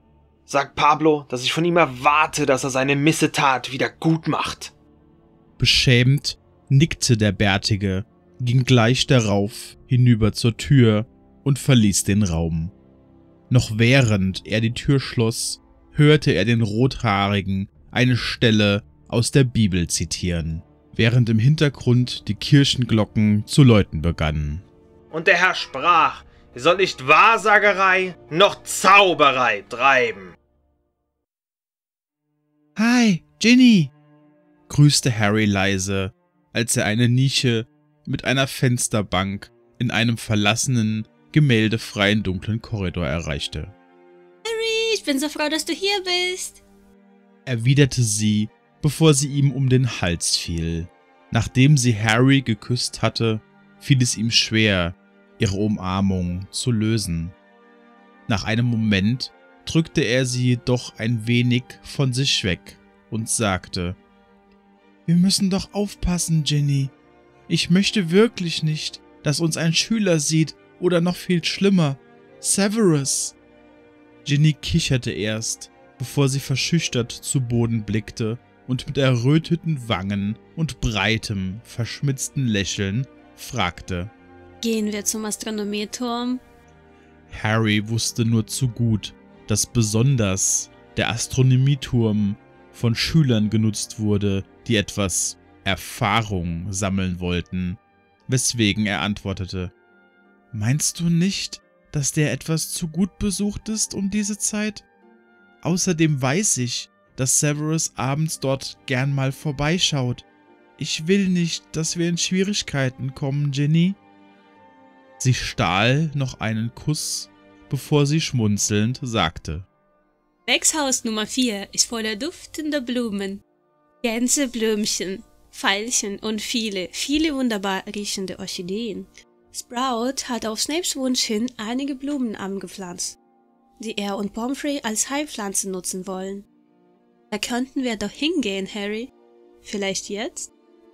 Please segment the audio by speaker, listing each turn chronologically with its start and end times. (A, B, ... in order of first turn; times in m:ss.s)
0:00.5-0:04.7 A
0:05.6-0:12.7 B
0:13.5-0:24.6 B
0:25.1-0:30.4 A
0:32.8-0:33.9 B
0:34.7-0:43.7 B
0:44.5-0:46.6 C
0:47.5-0:57.4 B
0:58.3-1:04.0 B
1:05.1-1:06.9 B
1:07.5-1:13.4 B
1:14.2-1:24.1 B
1:24.6-1:26.4 C
1:27.3-1:39.7 B
1:40.5-1:44.9 B
1:45.6-1:50.3 B
1:50.8-1:54.0 B
1:55.2-1:59.7 B
2:00.5-2:03.4 C
2:04.0-2:13.2 C
2:13.8-2:16.5 C
2:17.3-2:19.1 C
2:19.6-2:20.5 C